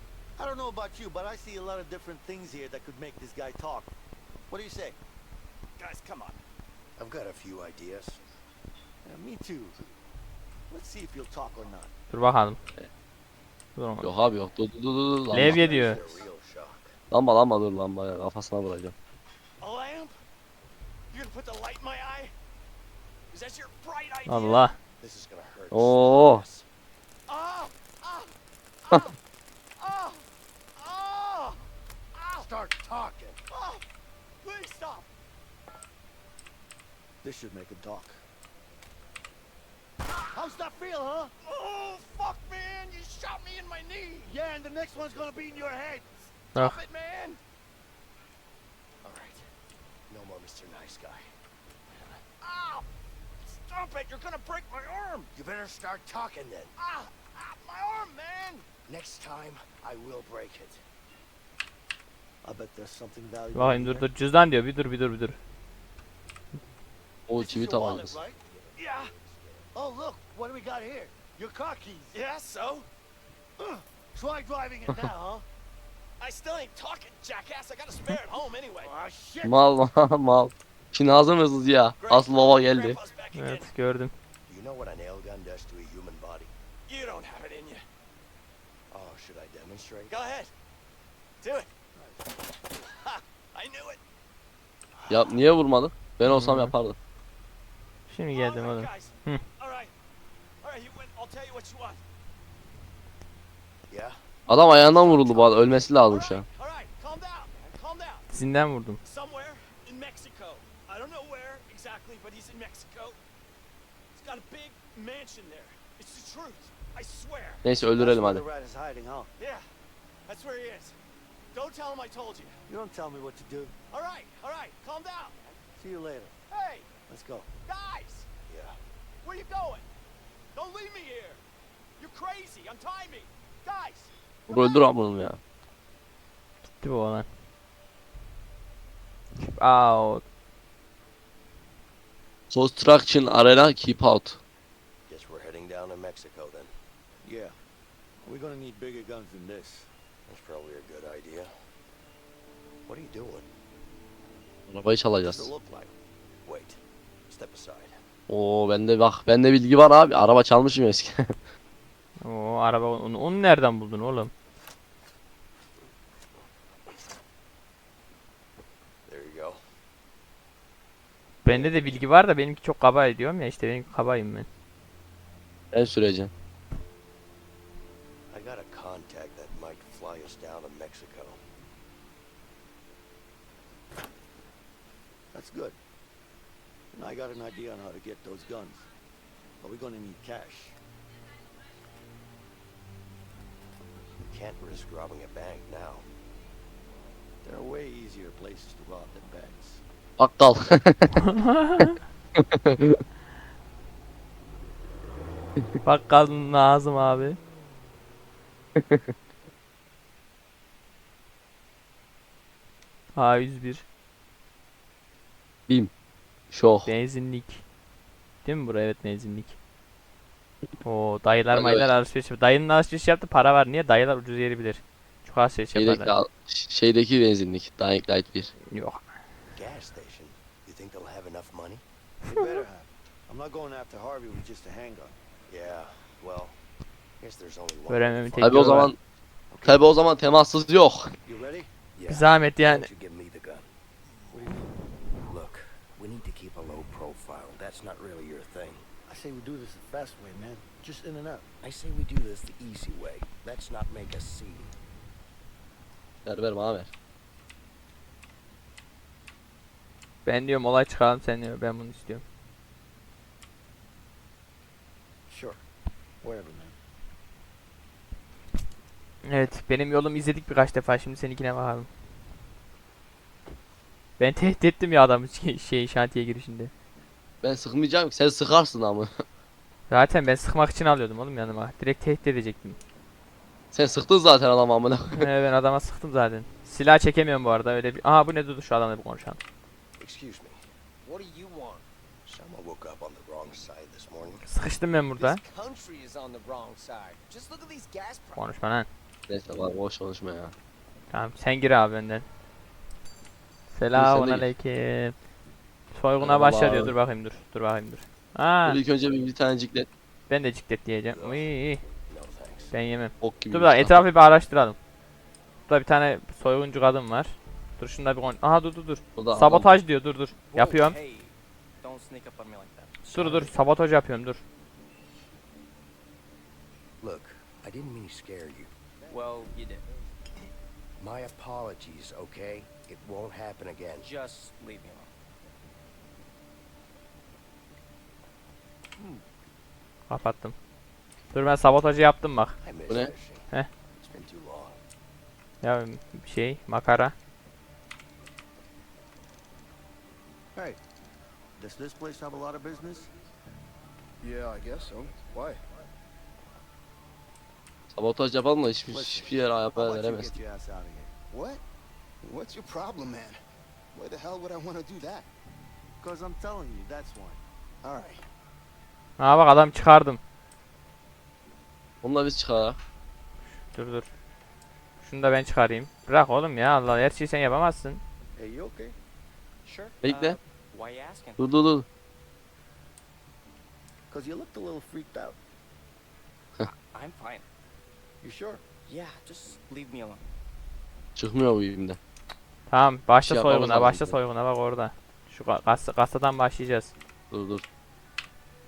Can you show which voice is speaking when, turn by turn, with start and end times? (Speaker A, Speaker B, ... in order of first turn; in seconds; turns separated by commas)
Speaker A: 0.4-3.9, Speaker A: 4.5-5.0, Speaker B: 5.8-6.4, Speaker C: 7.0-8.2, Speaker A: 9.1-9.8, Speaker A: 10.7-11.9, Speaker D: 12.1-12.6, Speaker D: 13.8-14.1, Speaker E: 14.0-15.9, Speaker D: 15.3-16.2, Speaker C: 15.3-16.9, Speaker E: 17.1-18.9, Speaker B: 19.6-20.2, Speaker B: 21.1-22.3, Speaker B: 23.3-24.7, Speaker D: 24.3-24.8, Speaker C: 25.0-26.7, Speaker E: 25.7-26.4, Speaker B: 27.3-28.3, Speaker B: 28.9-29.2, Speaker B: 29.8-32.4, Speaker C: 32.3-33.4, Speaker B: 33.5-33.8, Speaker B: 34.4-35.1, Speaker A: 37.2-38.2, Speaker A: 40.3-41.3, Speaker B: 41.4-44.4, Speaker A: 44.3-46.1, Speaker C: 45.0-45.6, Speaker B: 46.5-47.4, Speaker C: 49.0-49.5, Speaker C: 50.1-51.3, Speaker B: 52.4-52.9, Speaker B: 53.4-55.3, Speaker C: 55.3-56.7, Speaker B: 56.8-58.7, Speaker C: 58.9-60.8, Speaker A: 62.4-64.1, Speaker D: 63.5-65.4, Speaker E: 67.3-68.2, Speaker A: 67.4-68.4, Speaker C: 68.6-69.7, Speaker B: 68.8-69.1, Speaker A: 69.7-72.2, Speaker B: 72.1-72.9, Speaker A: 73.6-75.4, Speaker B: 76.2-78.9, Speaker C: 78.8-79.4, Speaker E: 79.4-83.0, Speaker B: 82.0-83.7, Speaker D: 83.3-84.1, Speaker C: 84.5-86.5, Speaker B: 86.9-87.8, Speaker C: 88.9-90.1, Speaker B: 90.1-90.5, Speaker B: 91.4-91.7, Speaker A: 92.0-92.3, Speaker B: 92.8-94.0, Speaker E: 95.1-97.0, Speaker C: 95.1-95.4, Speaker D: 96.3-96.7, Speaker D: 98.1-99.4, Speaker B: 98.3-99.9, Speaker B: 100.6-102.0, Speaker C: 103.9-106.4, Speaker E: 104.5-106.5, Speaker B: 106.1-108.3, Speaker D: 108.3-109.0, Speaker B: 109.0-113.2, Speaker B: 114.2-117.7, Speaker E: 117.6-118.4, Speaker A: 118.0-119.3, Speaker B: 119.4-119.7, Speaker B: 120.3-121.0, Speaker B: 121.5-122.6, Speaker A: 122.7-123.8, Speaker B: 123.9-125.6, Speaker A: 125.8-126.3, Speaker B: 126.5-126.9, Speaker A: 127.1-127.5, Speaker B: 127.7-128.3, Speaker C: 128.5-128.8, Speaker B: 129.2-129.9, Speaker B: 130.6-131.4, Speaker B: 132.0-134.1, Speaker E: 134.5-135.4, Speaker D: 136.8-137.3, Speaker D: 139.4-140.2, Speaker E: 142.5-144.4, Speaker C: 145.1-146.7, Speaker A: 147.2-147.5, Speaker A: 148.2-149.9, Speaker C: 150.3-151.5, Speaker C: 152.9-153.5, Speaker E: 154.7-155.5, Speaker A: 155.2-155.9, Speaker C: 156.4-158.0, Speaker E: 158.3-161.4, Speaker D: 162.2-164.3, Speaker C: 169.1-169.6, Speaker D: 171.4-174.5, Speaker C: 171.5-172.0, Speaker E: 175.7-176.3, Speaker C: 178.3-181.4, Speaker A: 185.3-185.8, Speaker A: 186.9-188.9, Speaker A: 189.6-190.8, Speaker C: 194.2-196.1, Speaker A: 197.4-199.8, Speaker E: 200.2-201.3, Speaker D: 201.3-202.0, Speaker E: 202.4-203.0, Speaker D: 205.8-207.4, Speaker E: 208.8-209.1, Speaker D: 213.2-213.8, Speaker E: 216.5-216.9, Speaker D: 216.8-217.6, Speaker D: 218.4-219.6, Speaker D: 220.8-226.2, Speaker E: 221.5-221.9, Speaker E: 225.8-228.5, Speaker D: 228.7-229.1, Speaker C: 229.5-231.8, Speaker A: 232.3-235.2, Speaker C: 235.5-236.6, Speaker C: 237.2-238.9, Speaker D: 237.9-238.9, Speaker E: 238.4-239.0, Speaker C: 239.5-239.8, Speaker E: 239.6-241.1, Speaker A: 241.2-241.7, Speaker C: 241.9-243.7, Speaker D: 242.1-242.9, Speaker A: 244.3-244.7, Speaker C: 245.2-248.8, Speaker A: 249.1-251.5, Speaker C: 251.6-254.7, Speaker E: 256.2-256.9, Speaker D: 260.2-262.2, Speaker A: 265.3-265.6, Speaker A: 266.2-266.8, Speaker D: 269.2-271.9, Speaker D: 274.2-276.7, Speaker E: 277.4-279.2, Speaker D: 279.9-282.8, Speaker E: 283.7-285.3, Speaker D: 285.2-289.4, Speaker C: 290.0-290.7, Speaker B: 291.1-291.8, Speaker C: 292.3-294.4, Speaker D: 294.4-295.4, Speaker B: 295.2-298.4, Speaker D: 298.4-298.9, Speaker E: 299.3-300.5, Speaker D: 301.1-302.3, Speaker D: 303.7-305.1, Speaker E: 303.9-304.5, Speaker D: 305.9-308.8, Speaker E: 306.2-307.0, Speaker E: 308.7-309.9, Speaker D: 310.3-311.8, Speaker C: 311.1-311.5, Speaker C: 312.1-312.7, Speaker D: 312.7-314.8, Speaker E: 313.2-314.1, Speaker D: 315.7-321.0, Speaker E: 319.2-319.8, Speaker F: 320.5-323.0, Speaker C: 323.0-323.6, Speaker D: 323.1-324.4, Speaker C: 327.0-328.7, Speaker A: 329.0-329.3, Speaker F: 329.1-329.8, Speaker C: 331.0-334.1, Speaker F: 334.0-335.1, Speaker D: 340.1-340.6, Speaker D: 341.3-342.6, Speaker C: 342.6-343.5, Speaker E: 342.9-343.1, Speaker C: 344.0-344.8, Speaker D: 345.6-347.1, Speaker A: 351.6-353.1, Speaker G: 354.2-355.6, Speaker E: 357.9-360.4, Speaker A: 358.9-361.1, Speaker G: 361.3-361.6, Speaker G: 362.2-363.4, Speaker G: 364.0-365.3, Speaker A: 366.0-367.4, Speaker G: 367.8-368.2, Speaker D: 369.2-370.2, Speaker E: 372.0-372.8, Speaker D: 373.7-374.1, Speaker D: 375.0-378.0, Speaker A: 378.4-378.9, Speaker F: 379.6-381.6, Speaker E: 380.0-380.4, Speaker E: 381.4-381.9, Speaker A: 384.1-385.4, Speaker F: 386.9-387.5, Speaker A: 388.2-388.6, Speaker F: 388.9-390.2, Speaker E: 391.2-392.0, Speaker D: 392.7-396.9, Speaker E: 393.2-394.2, Speaker E: 397.3-397.6